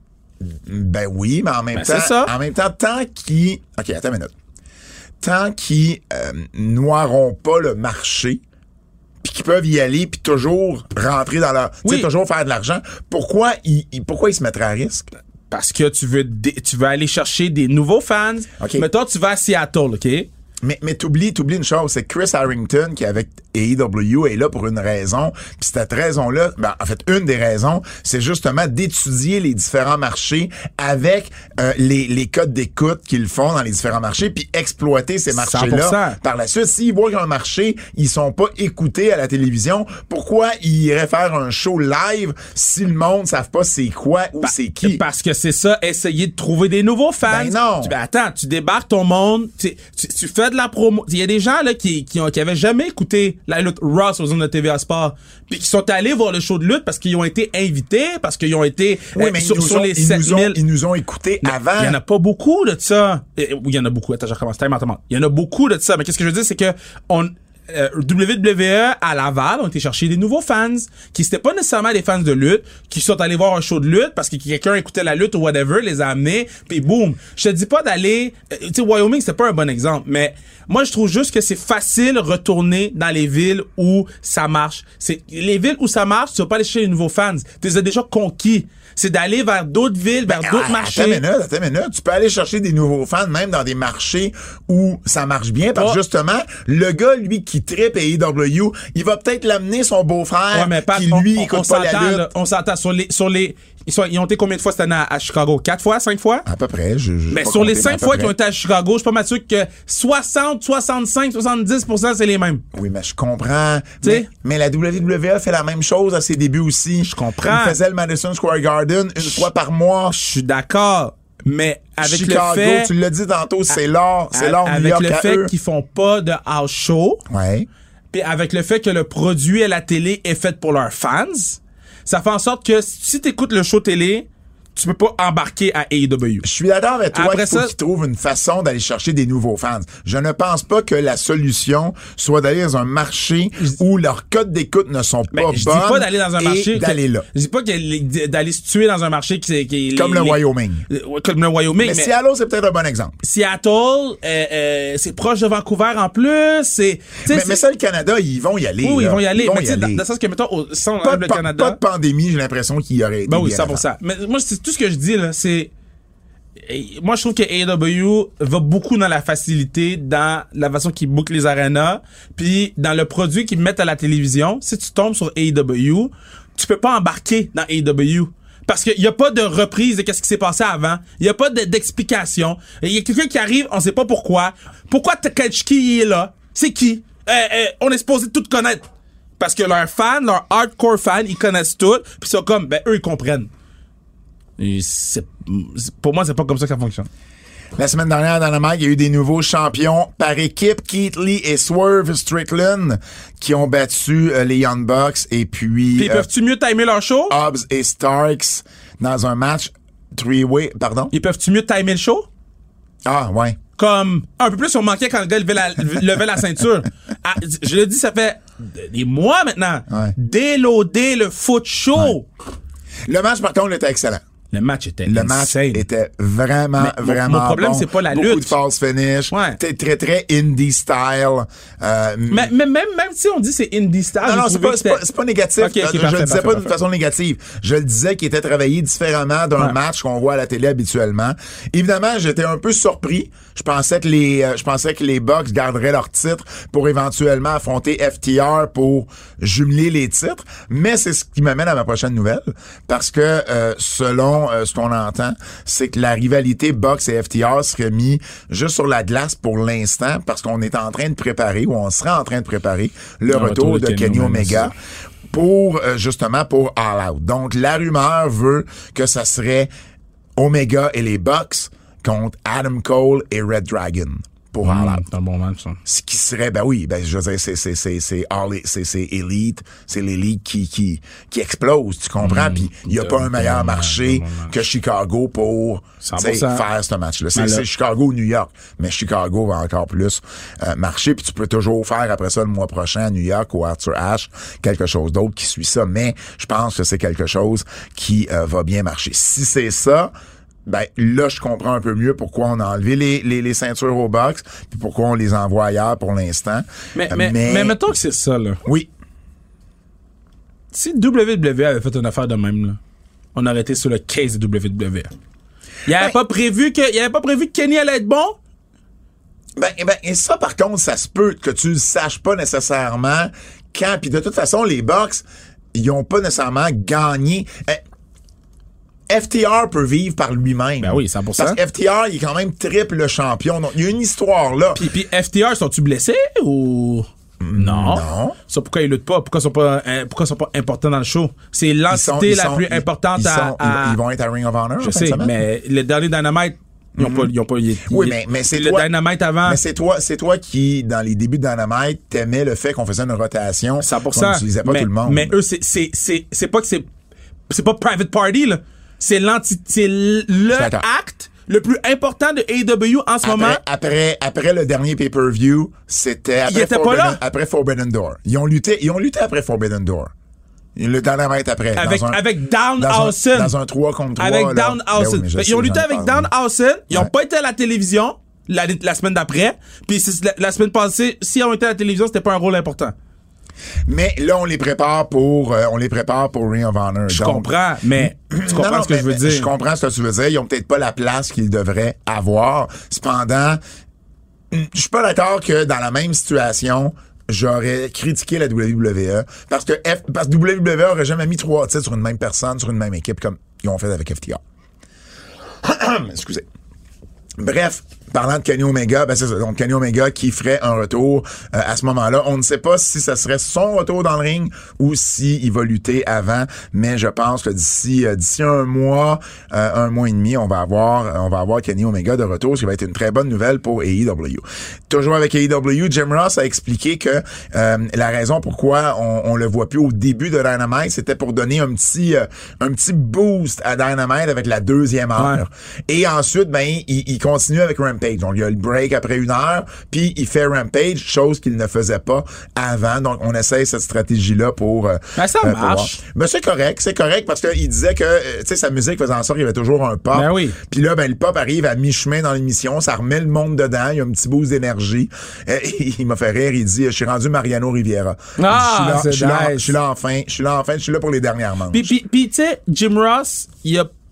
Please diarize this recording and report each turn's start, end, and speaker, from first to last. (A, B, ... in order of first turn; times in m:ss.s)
0:00.4-0:04.3 A
0:01.7-0:02.3 B
0:05.2-0:08.4 A
0:09.2-0:15.1 A
0:15.5-0:20.3 B
0:18.6-0:18.8 A
0:20.6-0:45.0 A
0:35.3-0:36.2 B
0:44.4-1:00.6 B
0:47.2-0:47.9 A
0:59.1-1:02.0 A
1:01.4-1:31.2 B
1:30.3-1:42.3 A
1:35.7-1:36.0 B
1:40.5-1:46.4 B
1:46.4-1:48.3 A
1:47.3-1:52.6 B
1:52.7-2:00.1 A
1:54.0-1:54.3 B
1:57.0-1:57.8 B
2:00.1-2:02.9 B
2:02.0-2:05.5 A
2:04.3-2:07.2 B
2:07.3-2:07.7 A
2:08.1-2:16.4 B
2:16.4-2:27.3 A
2:17.1-2:17.7 B
2:25.3-2:32.1 B
2:29.9-2:30.8 A
2:31.8-2:33.2 A
2:33.2-2:37.6 B
2:37.2-2:40.0 A
2:38.8-2:41.8 B
2:41.0-2:43.8 A
2:43.3-2:45.7 B
2:46.6-3:08.8 B
3:09.4-3:13.5 B
3:14.6-3:17.1 B
3:17.8-3:26.2 A
3:26.0-3:27.3 B
3:27.3-3:31.1 A
3:31.1-3:32.3 B
3:33.0-3:33.6 A
3:33.8-3:42.3 B
3:39.9-3:40.1 A
3:43.1-3:44.2 A
3:44.5-3:45.8 B
3:45.0-3:52.5 A
3:46.8-3:48.6 B
3:49.3-3:49.6 B
3:52.3-3:55.0 B
3:54.2-4:24.7 A
3:55.6-3:56.7 B
4:23.3-4:24.7 B
4:25.3-4:29.7 A
4:30.4-4:35.0 A
4:34.6-4:35.8 B
4:35.8-5:00.1 A
4:42.2-4:44.6 B
4:46.0-4:46.6 B
4:47.3-4:47.6 B
5:00.6-5:07.8 A
5:06.9-5:08.6 B
5:10.7-5:12.8 B
5:13.3-5:15.1 B
5:15.8-5:18.4 B
5:19.6-5:27.8 A
5:29.1-5:34.8 A
5:30.8-5:31.6 B
5:34.7-5:44.0 B
5:37.4-5:38.4 A
5:41.9-5:45.3 A
5:44.8-5:49.6 B
5:47.0-5:47.3 A
5:47.8-5:48.9 A
5:49.4-5:55.3 A
5:53.8-5:56.9 B
5:57.5-6:03.6 B
6:00.5-6:00.8 A
6:03.2-6:10.1 A
6:06.4-6:07.2 B
6:10.8-6:12.2 A
6:11.8-6:13.5 B
6:12.8-6:16.3 A
6:14.2-6:22.9 B
6:23.9-6:33.6 A
6:27.1-6:29.5 B
6:34.5-6:44.4 A
6:45.6-6:46.4 A
6:47.4-7:41.9 A
7:15.2-7:15.4 B
7:25.2-7:25.9 B
7:30.1-7:30.6 B
7:38.4-7:39.7 B
7:41.7-7:43.9 B